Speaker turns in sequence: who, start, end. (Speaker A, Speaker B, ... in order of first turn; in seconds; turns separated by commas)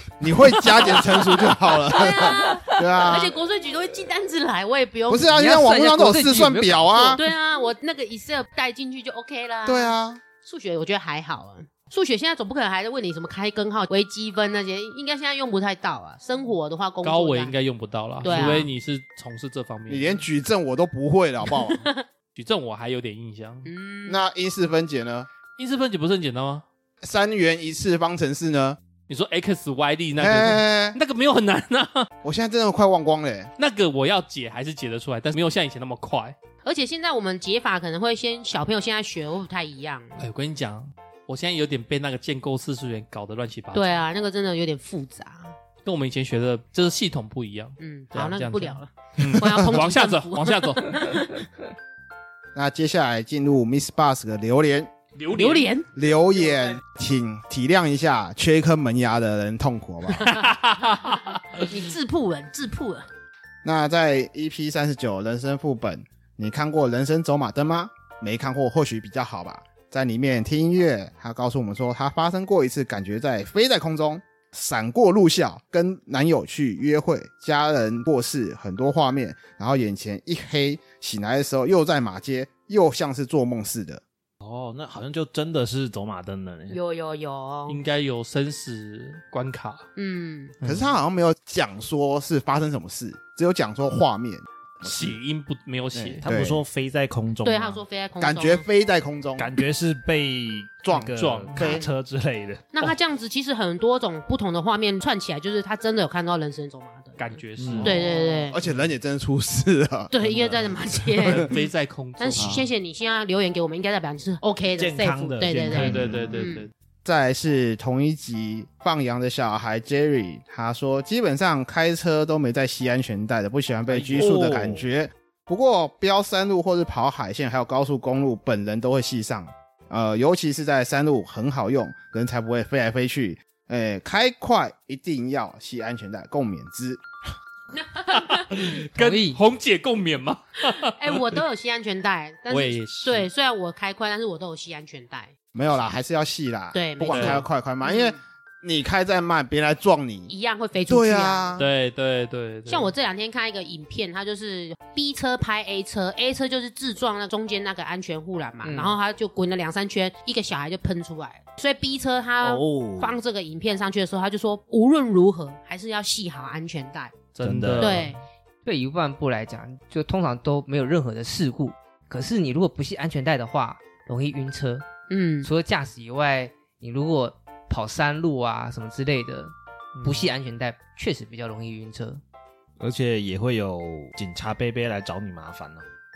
Speaker A: 0.2-3.4, Speaker B: 0.8-5.3, Speaker A: 5.1-7.2, Speaker C: 5.3-7.2, Speaker B: 7.2-17.5, Speaker A: 9.7-10.2, Speaker D: 17.0-20.2, Speaker B: 18.2-18.7, Speaker A: 18.3-18.6, Speaker A: 19.9-21.9, Speaker B: 21.6-22.0, Speaker D: 22.4-23.7, Speaker B: 23.6-24.2, Speaker A: 24.1-25.3, Speaker D: 25.6-26.6, Speaker A: 27.0-28.8, Speaker D: 29.1-32.1, Speaker A: 30.2-31.0, Speaker A: 32.2-33.5, Speaker D: 33.6-36.4, Speaker B: 36.6-40.3, Speaker D: 40.2-44.0, Speaker B: 43.7-45.5, Speaker D: 45.9-51.2, Speaker B: 47.8-51.4, Speaker A: 52.5-54.9, Speaker D: 55.2-55.7, Speaker B: 55.3-55.9, Speaker A: 56.0-60.4, Speaker D: 60.3-61.6, Speaker B: 61.0-63.1, Speaker A: 63.6-84.0, Speaker E: 84.4-86.8, Speaker B: 86.7-87.8, Speaker D: 87.7-89.9, Speaker B: 90.0-90.6, Speaker D: 90.6-90.9, Speaker A: 90.6-95.2, Speaker D: 94.8-96.2, Speaker E: 96.0-97.8, Speaker A: 96.2-96.6, Speaker B: 97.4-98.7, Speaker A: 98.2-99.5, Speaker E: 99.4-102.7, Speaker A: 100.8-101.9, Speaker D: 101.2-101.7, Speaker B: 101.6-101.9, Speaker B: 102.7-107.2, Speaker D: 107.2-108.0, Speaker E: 107.6-108.0, Speaker B: 107.8-108.6, Speaker A: 107.8-111.5, Speaker B: 110.1-111.6, Speaker D: 111.2-112.7, Speaker B: 112.2-116.7, Speaker E: 112.4-112.7, Speaker E: 114.7-116.3, Speaker D: 115.7-116.7, Speaker A: 115.9-116.3, Speaker A: 117.0-137.0, Speaker D: 123.9-124.6, Speaker E: 124.0-124.8, Speaker B: 137.8-138.7, Speaker D: 138.1-141.4, Speaker C: 138.9-139.4, Speaker B: 140.8-145.3, Speaker D: 142.5-143.3, Speaker A: 145.5-150.3, Speaker B: 146.7-148.2, Speaker D: 147.1-147.4, Speaker B: 150.3-151.6, Speaker A: 150.9-151.7, Speaker D: 151.6-152.9, Speaker B: 152.7-167.2, Speaker C: 158.6-159.0, Speaker E: 162.4-163.2, Speaker D: 167.3-168.2, Speaker E: 167.4-168.1, Speaker B: 167.8-168.2, Speaker C: 168.7-174.9, Speaker B: 175.1-175.5, Speaker C: 175.4-182.2, Speaker D: 179.9-180.3, Speaker E: 182.8-185.8